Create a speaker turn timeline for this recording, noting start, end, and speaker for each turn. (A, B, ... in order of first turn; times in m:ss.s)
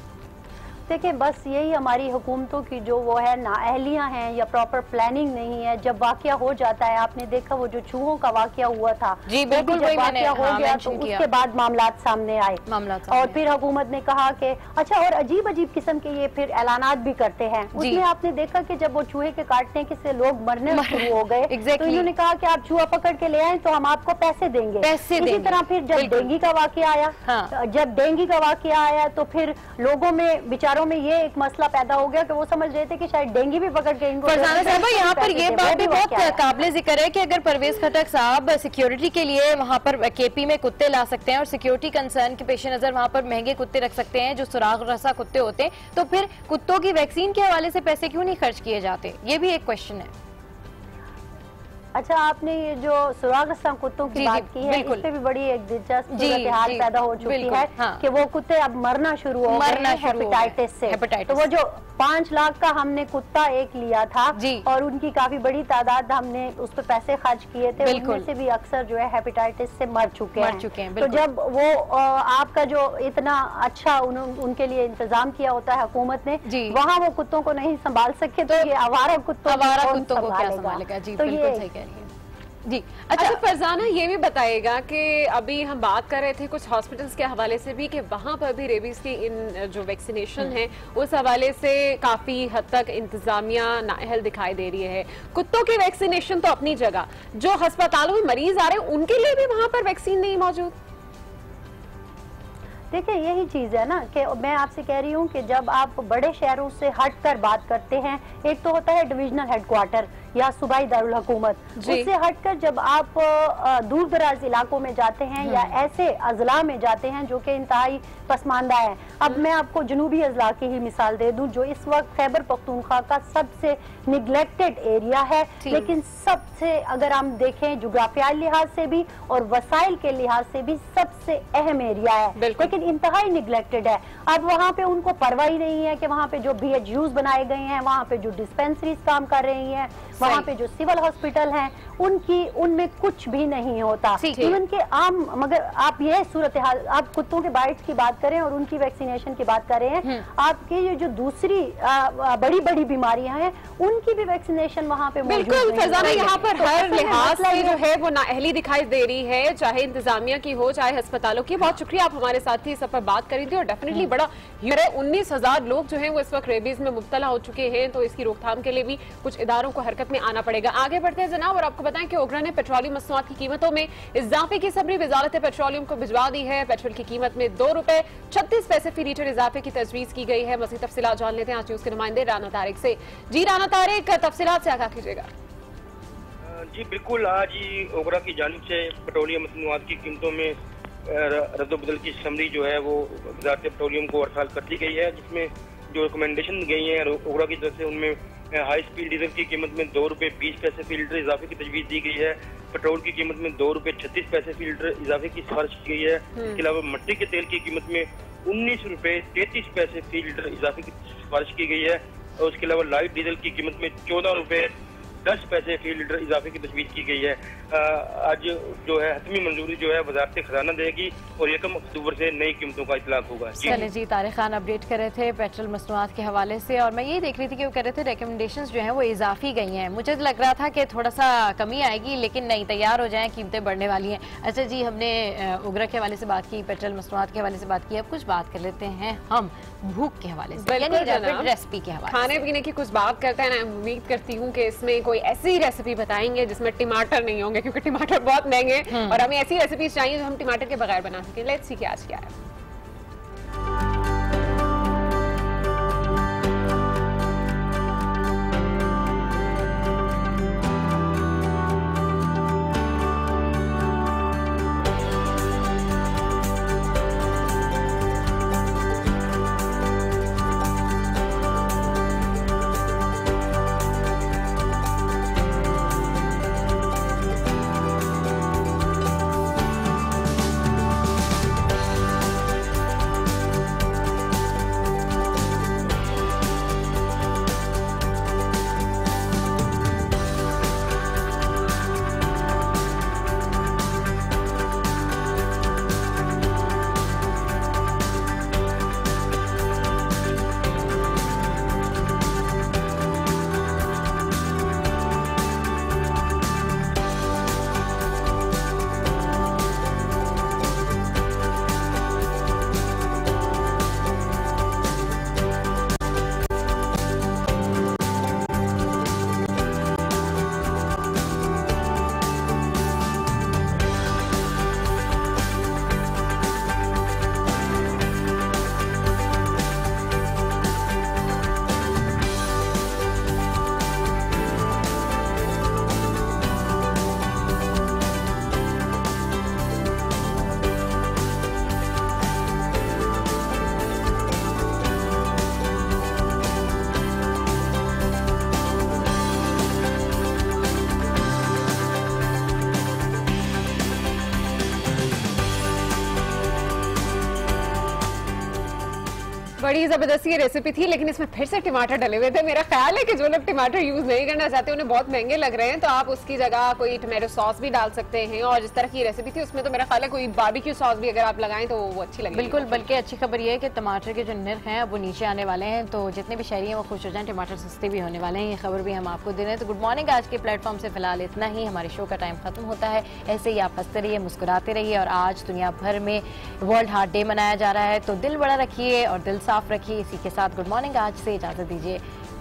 0:00.9-0:36.4 A
0:09.3-0:11.2 B
0:12.6-0:13.4 B
0:17.8-0:18.0 B
0:20.7-0:22.1 B
0:24.8-0:26.3 B
0:27.2-0:27.5 B
0:34.2-0:50.1 B
0:52.0-1:21.6 A
0:54.1-0:55.1 B
0:56.1-0:58.0 B
0:59.4-1:01.5 B
1:04.3-1:04.7 B
1:07.8-1:08.3 B
1:10.4-1:11.2 B
1:16.4-1:16.8 B
1:19.4-1:22.1 B
1:22.6-1:23.4 B
1:23.2-1:40.7 C
1:42.9-2:37.8 A
1:51.8-1:52.1 C
1:55.4-1:55.7 B
2:05.6-2:05.9 B
2:12.4-2:12.7 C
2:24.2-2:24.6 B
2:35.2-3:05.3 C
2:36.0-2:36.4 B
3:06.5-3:34.7 D
3:26.4-3:26.6 C
3:35.2-3:43.8 D
3:43.6-4:02.3 B
4:00.6-4:01.5 C
4:02.1-4:12.3 C
4:08.9-4:09.2 B
5:59.6-6:12.8 C
6:12.3-6:32.0 B